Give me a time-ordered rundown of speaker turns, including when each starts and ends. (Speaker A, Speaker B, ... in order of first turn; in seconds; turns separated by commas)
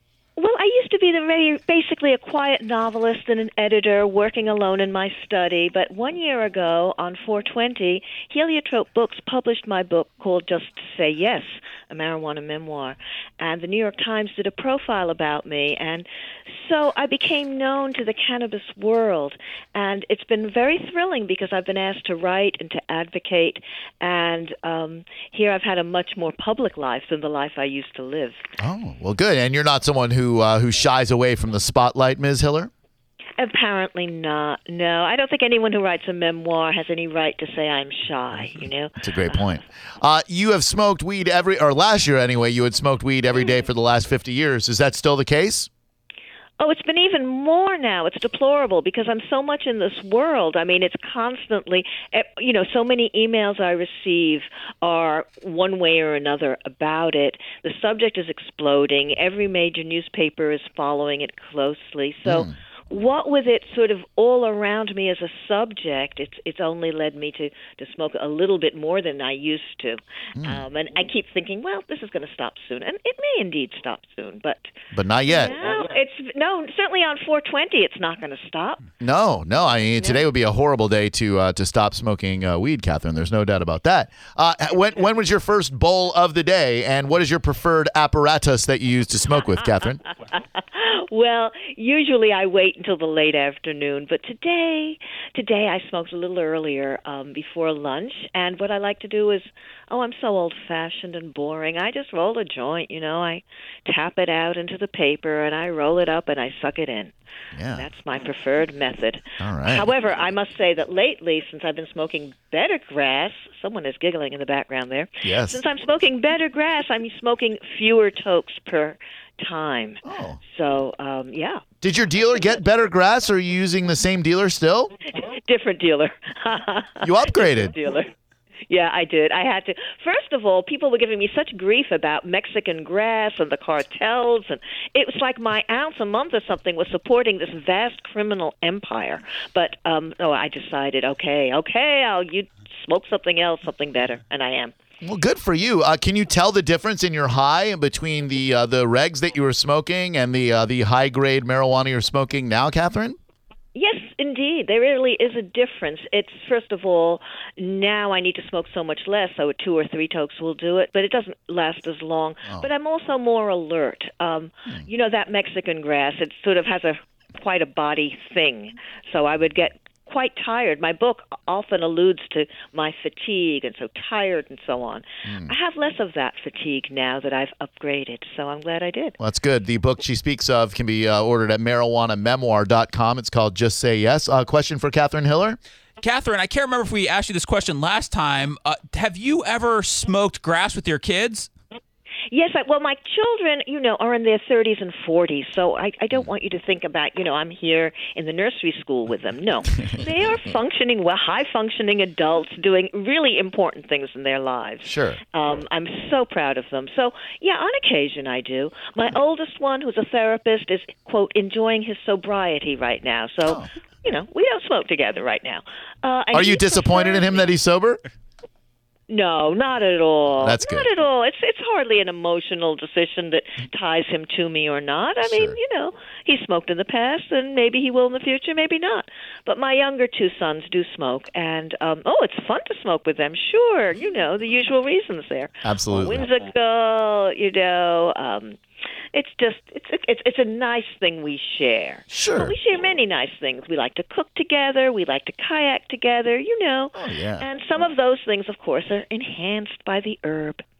Speaker A: 0.4-28.4, Speaker B: 28.6-32.7, Speaker A: 33.4-39.6, Speaker B: 39.0-45.7, Speaker A: 46.6-74.7, Speaker B: 62.3-62.5, Speaker B: 70.4-70.6, Speaker B: 74.9-75.5, Speaker A: 75.2-78.8, Speaker B: 79.0-90.0, Speaker A: 80.0-80.3, Speaker A: 90.3-107.1, Speaker B: 107.5-107.9, Speaker A: 107.8-121.6, Speaker B: 109.4-109.9, Speaker B: 115.2-115.6, Speaker B: 120.0-120.4, Speaker B: 121.8-124.9, Speaker A: 125.2-128.1, Speaker B: 127.0-127.8, Speaker A: 128.7-144.7, Speaker B: 145.0-153.2, Speaker A: 153.8-179.2, Speaker B: 175.2-175.5, Speaker B: 179.2-185.6, Speaker C: 186.0-191.5, Speaker A: 192.3-217.5, Speaker B: 204.9-205.2, Speaker B: 216.3-218.0, Speaker A: 219.1-238.6, Speaker B: 220.4-220.9, Speaker B: 225.2-225.6, Speaker B: 235.6-236.3, Speaker A: 239.1-250.6, Speaker B: 242.1-242.6, Speaker B: 246.9-247.5